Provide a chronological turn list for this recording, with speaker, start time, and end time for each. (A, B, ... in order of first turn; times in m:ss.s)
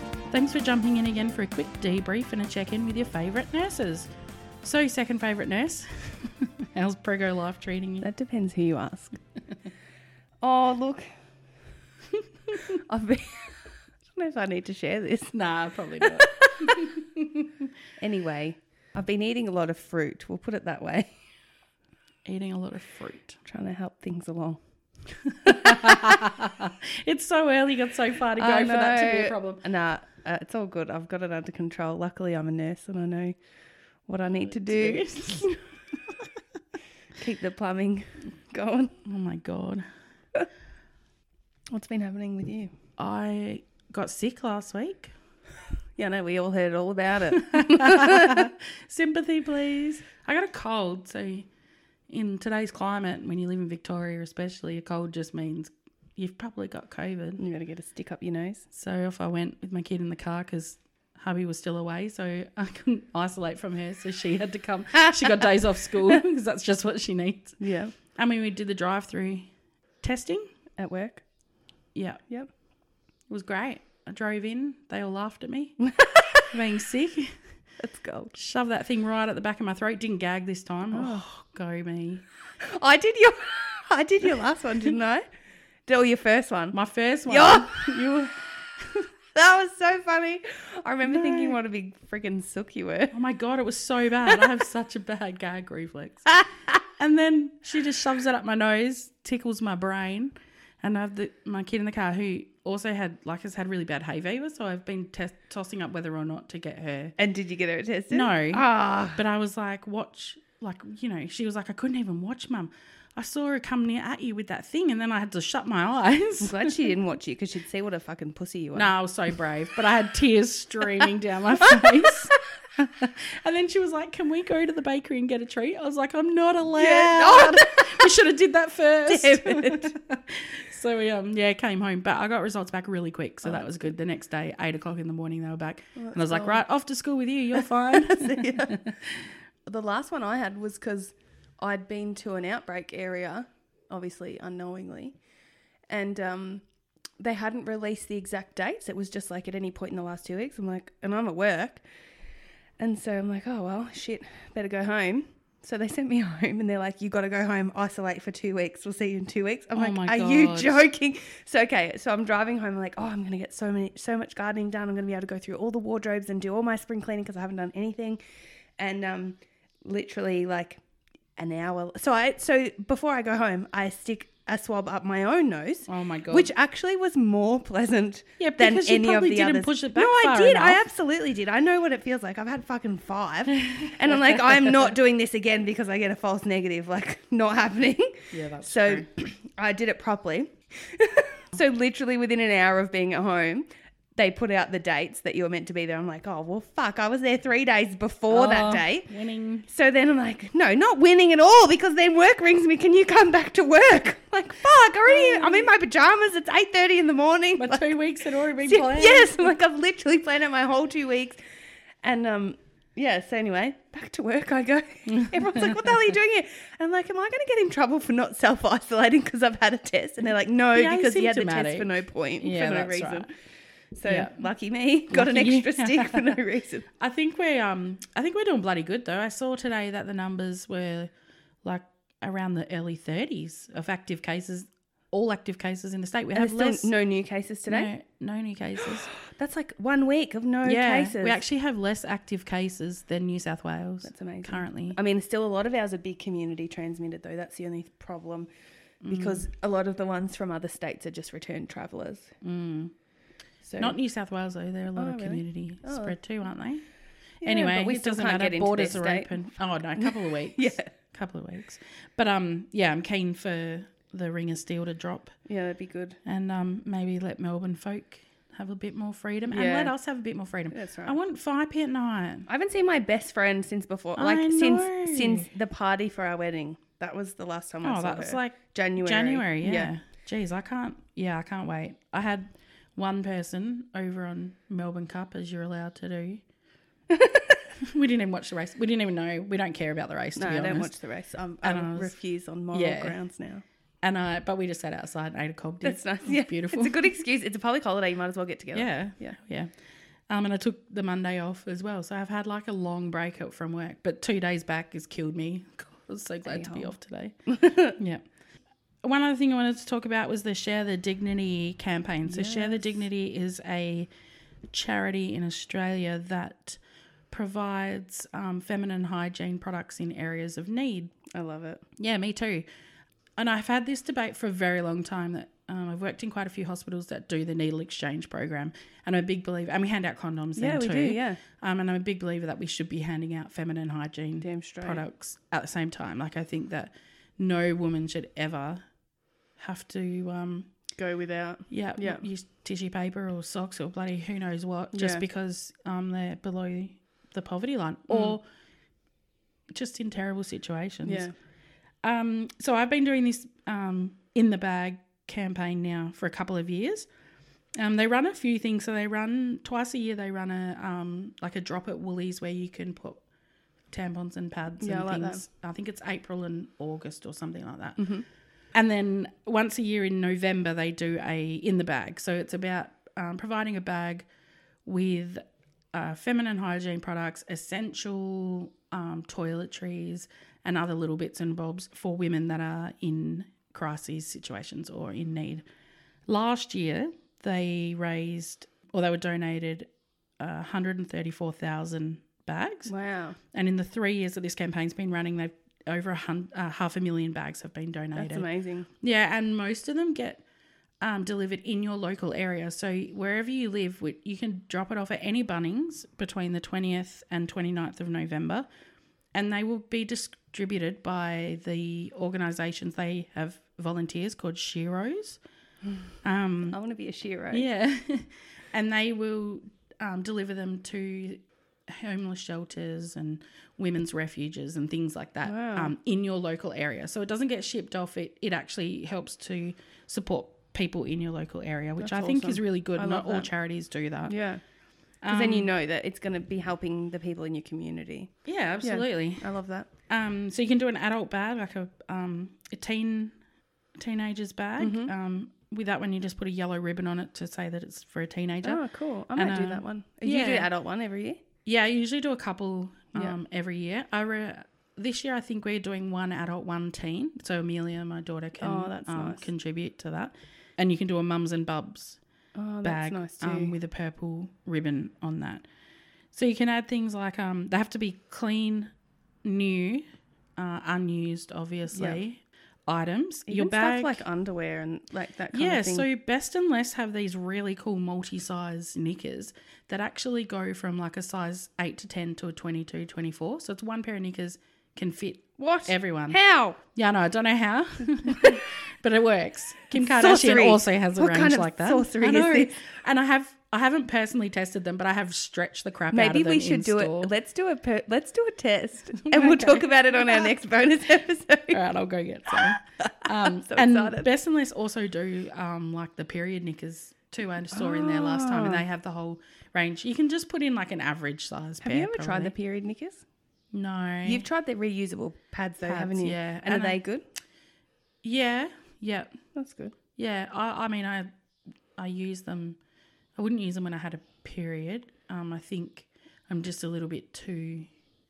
0:00.3-0:04.1 A
0:04.6-0:08.1 A
0:08.0-0:09.2 B
0:10.4-0:11.2 B
0:12.5-0:15.4 B
0:15.3-0:17.6 A
0:16.0-0:16.9 B
0:18.0-0:21.1 B
0:22.2-0:23.4 A
0:23.4-0:24.6 B
0:25.4-0:29.6 A
0:25.5-0:26.0 B
0:28.4-0:33.3 B
0:34.1-0:35.6 B
0:34.4-0:35.5 A
0:37.2-0:38.9 B
0:39.0-0:39.9 A
0:41.7-0:42.7 B
0:43.0-0:45.1 A
0:46.0-0:48.5 B
0:47.5-0:51.5 A
0:52.1-0:57.4 A
0:57.4-0:58.7 B
0:58.7-1:07.6 A
1:07.6-1:08.0 B
1:08.2-1:09.5 A
1:10.0-1:10.4 A
1:10.8-1:11.2 B
1:12.0-1:12.2 A
1:13.3-1:15.8 A
1:15.8-1:16.5 B
1:16.5-1:17.3 A
1:17.8-1:18.4 B
1:18.3-1:22.2 A
1:20.9-1:21.2 B
1:22.6-1:25.2 B
1:25.9-1:28.1 B
1:26.7-1:28.3 A
1:29.4-1:33.1 B
1:31.1-1:31.6 A
1:33.1-1:47.2 A
1:47.2-1:49.2 B
1:48.1-1:56.7 A
1:56.4-1:59.0 B
1:58.8-2:19.0 A
2:06.8-2:08.1 B
2:09.1-2:10.0 B
2:16.0-2:16.6 B
2:17.9-2:18.8 B
2:19.7-2:25.2 B
2:25.9-2:26.6 B
2:27.2-2:31.8 B
2:32.8-2:48.2 B
2:39.8-2:40.8 A
2:48.8-2:50.8 B
2:51.4-3:19.1 B
2:55.9-2:56.5 A
2:58.4-3:00.8 A
3:08.3-3:09.1 A
3:18.3-3:19.7 A
3:19.7-3:31.4 B
3:25.1-3:25.7 A
3:27.6-3:29.6 A
3:32.0-3:43.3 B
3:35.1-3:35.7 A
3:40.7-3:43.3 A
3:44.0-3:46.9 B
3:44.1-3:44.4 A
3:45.1-3:46.4 A
3:47.0-3:51.1 A
3:51.6-3:56.9 A
3:56.4-3:57.9 B
3:57.7-3:59.1 A
3:59.2-4:01.4 B
4:00.6-4:05.0 A
4:04.0-4:08.5 B
4:09.0-4:09.5 A
4:09.1-4:12.3 B
4:12.4-4:12.9 A
4:13.6-4:14.0 B
4:13.8-4:16.9 A
4:15.0-4:16.2 B
4:17.4-4:20.9 B
4:17.4-4:25.3 A
4:25.5-4:26.2 B
4:26.2-4:32.5 A
4:29.5-4:29.9 B
4:30.7-4:31.2 B
4:32.5-4:39.9 B
4:34.2-4:35.5 A
4:37.8-4:46.4 A
4:47.1-4:47.6 B
4:47.8-4:50.9 A
4:50.4-4:53.6 B
4:51.6-4:52.1 A
4:52.7-4:53.2 A
4:54.0-4:57.0 A
4:55.8-4:59.4 B
4:58.7-4:59.7 A
5:00.3-5:08.2 A
5:06.5-5:06.9 B
5:07.5-5:08.0 B
5:09.0-5:14.1 A
5:12.3-5:12.8 B
5:14.7-5:16.8 A
5:17.3-5:21.1 A
5:21.3-5:21.8 B
5:22.0-5:22.7 A
5:23.4-5:38.8 A
5:30.6-5:31.4 B
5:34.4-5:35.0 B
5:39.6-5:40.7 A
5:41.0-5:42.2 B
5:41.7-5:48.4 A
5:44.9-5:45.2 B
5:48.1-5:48.4 B
5:49.7-5:51.3 A
5:51.0-5:51.3 B
5:52.0-5:57.1 A
5:57.8-6:03.2 A
6:03.9-6:08.1 A
6:04.8-6:05.4 B
6:08.0-6:08.3 B
6:08.7-6:14.3 A
6:14.9-6:25.6 A
6:26.3-6:29.9 A
6:30.4-6:32.9 A
6:32.9-6:33.4 B
6:33.5-6:38.5 A
6:38.2-6:38.9 B
6:39.0-6:40.4 A
6:41.0-6:48.7 A
6:49.3-6:55.4 A
6:56.2-6:56.8 A
6:56.7-6:57.7 B
6:57.5-7:14.3 A
7:05.5-7:05.9 B
7:12.0-7:13.5 B
7:14.3-7:14.6 B
7:15.2-7:15.7 A
7:15.2-7:19.9 B
7:18.4-7:19.5 A
7:20.1-7:23.3 A
7:24.0-7:28.8 A
7:24.8-7:25.1 B
7:28.6-7:31.4 B
7:29.4-7:30.7 A
7:31.6-7:42.2 A
7:38.6-7:39.5 B
7:42.6-7:43.7 B
7:42.8-7:45.6 A
7:46.3-7:48.9 A
7:49.4-7:50.0 A
7:50.6-7:54.2 A
7:51.9-7:52.2 B
7:53.5-7:56.1 B
7:55.5-8:06.4 A
8:05.6-8:06.8 B
8:07.0-8:17.3 A
8:10.0-8:12.8 B
8:16.1-8:21.8 B
8:19.3-8:19.9 A
8:21.7-8:32.5 A
8:23.3-8:24.3 B
8:27.7-8:28.8 B
8:31.8-8:33.2 B
8:33.7-8:34.4 A
8:34.2-8:37.2 B
8:35.8-8:37.0 A
8:38.2-8:39.3 A
8:39.6-8:40.0 B
8:40.2-8:41.3 A
8:42.0-8:42.8 A
8:43.4-8:47.9 A